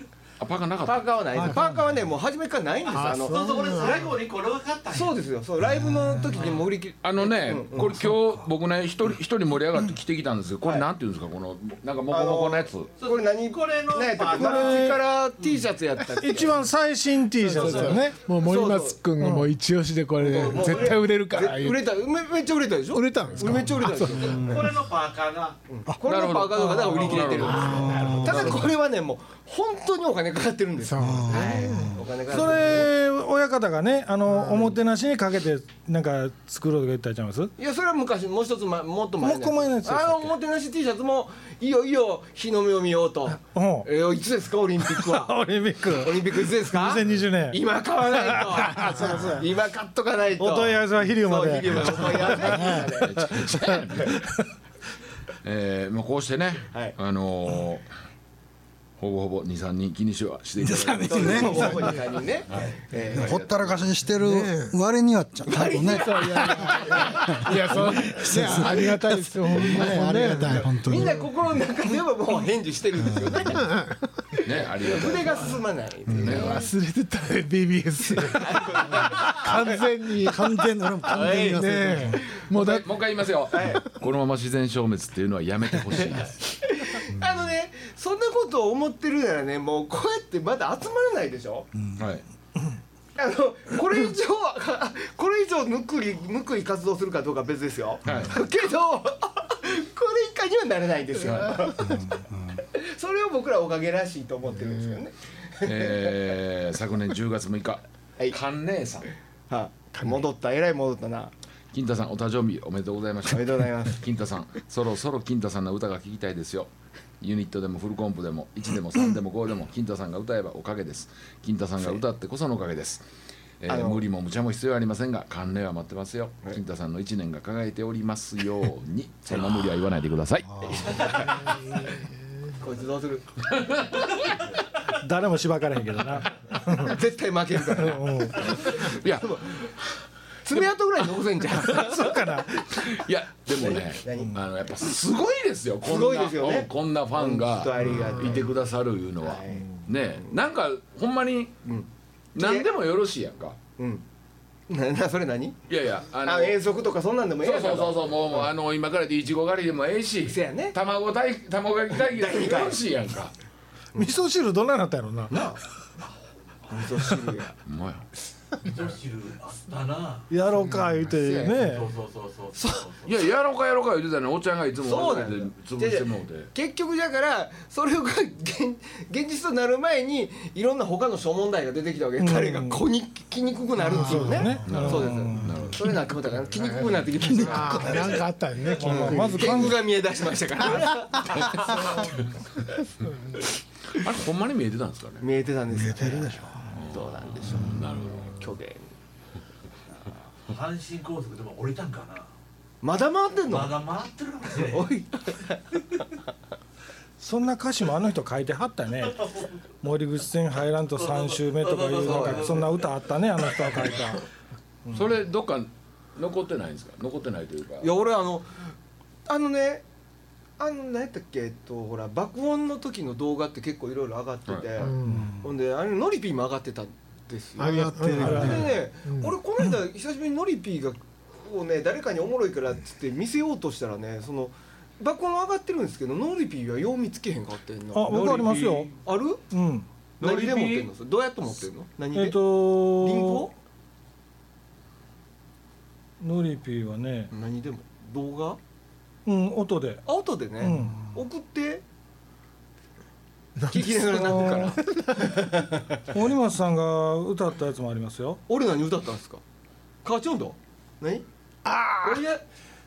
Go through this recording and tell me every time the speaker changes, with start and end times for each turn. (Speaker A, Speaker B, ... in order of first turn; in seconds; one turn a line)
Speaker A: 0.4-1.0
Speaker B: 0.8-3.8
Speaker C: 1.3-1.8
Speaker D: 2.9-4.0
Speaker E: 3.2-5.1
Speaker B: 4.9-8.0
Speaker C: 5.7-6.3
Speaker E: 6.3-6.7
Speaker A: 7.0-12.9
Speaker B: 12.1-16.6
Speaker E: 13.0-15.6
Speaker F: 14.3-15.0
Speaker F: 16.2-18.2
Speaker B: 17.5-19.0
Speaker E: 17.5-18.0
Speaker D: 17.5-21.9
Speaker F: 19.2-19.5
Speaker B: 20.2-24.7
Speaker E: 20.4-20.9
Speaker D: 22.9-24.5
Speaker E: 24.3-25.6
Speaker B: 25.7-32.9
Speaker A: 26.0-27.9
Speaker E: 26.8-27.8
Speaker D: 27.4-28.7
Speaker C: 27.6-28.7
Speaker D: 30.8-32.0
Speaker C: 31.0-32.0
Speaker F: 32.3-37.5
Speaker B: 37.6-45.3
Speaker F: 39.2-40.3
Speaker F: 43.4-43.9
Speaker F: 44.9-49.5
Speaker B: 46.0-53.4
Speaker F: 50.4-52.8
Speaker A: 53.0-54.4
Speaker A: 55.4-57.9
Speaker A: 59.0-63.9
Speaker C: 60.6-62.1
Speaker B: 61.0-63.5
Speaker C: 63.0-71.3
Speaker D: 64.2-64.7
Speaker B: 65.5-68.8
Speaker D: 65.9-71.1
Speaker B: 69.6-69.9
Speaker B: 70.4-73.7
Speaker D: 73.4-74.1
Speaker A: 74.4-75.6
Speaker B: 74.4-76.7
Speaker D: 76.1-83.0
Speaker A: 76.1-76.6
Speaker B: 78.0-79.8
Speaker C: 80.2-82.2
Speaker B: 81.1-82.8
Speaker A: 82.5-86.4
Speaker B: 83.5-83.8
Speaker B: 86.0-91.7
Speaker A: 92.0-92.2
Speaker B: 93.2-106.2
Speaker A: 98.0-98.4
Speaker A: 101.2-101.5
Speaker C: 101.8-102.6
Speaker A: 105.6-109.1
Speaker B: 109.5-111.3
Speaker A: 111.7-123.0
Speaker B: 113.3-114.0
Speaker A: 123.6-130.8
Speaker B: 123.7-124.0
Speaker B: 129.3-129.6
Speaker C: 130.5-130.8
Speaker B: 130.6-131.6
Speaker D: 131.3-132.1
Speaker B: 132.6-133.3
Speaker A: 133.5-134.2
Speaker F: 135.0-137.0
Speaker B: 136.7-139.7
Speaker F: 137.7-138.6
Speaker A: 138.4-139.7
Speaker B: 140.4-142.2
Speaker F: 141.7-142.6
Speaker A: 142.6-151.6
Speaker B: 143.5-144.4
Speaker B: 145.8-148.5
Speaker B: 149.2-149.7
Speaker B: 151.6-152.7
Speaker A: 152.3-153.6
Speaker B: 153.8-154.0
Speaker B: 154.7-155.6
Speaker A: 155.7-156.6
Speaker B: 156.2-158.5
Speaker A: 157.4-163.3
Speaker B: 160.2-160.7
Speaker B: 162.0-162.8
Speaker F: 164.0-165.3
Speaker B: 165.3-165.6
Speaker B: 166.7-167.6
Speaker A: 167.7-168.1
Speaker E: 168.6-170.3
Speaker F: 170.3-171.9
Speaker B: 171.1-171.6
Speaker E: 171.4-173.2
Speaker A: 173.0-176.5
Speaker B: 174.8-188.2
Speaker F: 182.2-182.8
Speaker C: 183.8-184.7
Speaker F: 183.9-185.6
Speaker A: 184.7-185.8
Speaker C: 185.4-185.8
Speaker D: 186.5-189.7
Speaker C: 187.2-188.2
Speaker F: 188.8-189.8
Speaker B: 188.8-192.1
Speaker A: 191.8-192.3
Speaker D: 193.0-193.4
Speaker A: 193.9-195.2
Speaker B: 195.2-198.9
Speaker C: 195.7-196.8
Speaker A: 196.7-198.4
Speaker C: 197.5-197.8
Speaker E: 200.5-202.3
Speaker B: 202.8-203.8
Speaker E: 203.5-204.9
Speaker B: 204.6-206.1
Speaker F: 207.2-209.2
Speaker E: 209.0-209.8
Speaker F: 209.8-214.2
Speaker E: 210.9-214.0
Speaker B: 212.0-212.6
Speaker A: 214.9-217.9
Speaker B: 217.8-218.7
Speaker B: 219.3-219.8
Speaker B: 220.6-239.4
Speaker D: 224.8-225.2
Speaker C: 225.0-225.3
Speaker D: 227.6-229.3
Speaker C: 227.7-228.7
Speaker F: 228.2-228.7
Speaker F: 237.9-238.9
Speaker F: 239.5-240.9
Speaker B: 240.2-243.5
Speaker F: 242.1-243.5
Speaker F: 246.2-247.3
Speaker B: 247.3-248.6
Speaker F: 249.2-250.0
Speaker B: 250.1-251.8
Speaker F: 250.6-251.0
Speaker D: 253.6-255.6
Speaker B: 253.7-256.0
Speaker F: 254.1-254.7
Speaker F: 256.1-258.4
Speaker B: 258.5-259.4
Speaker B: 260.0-261.2
Speaker D: 261.6-262.2
Speaker B: 262.0-262.4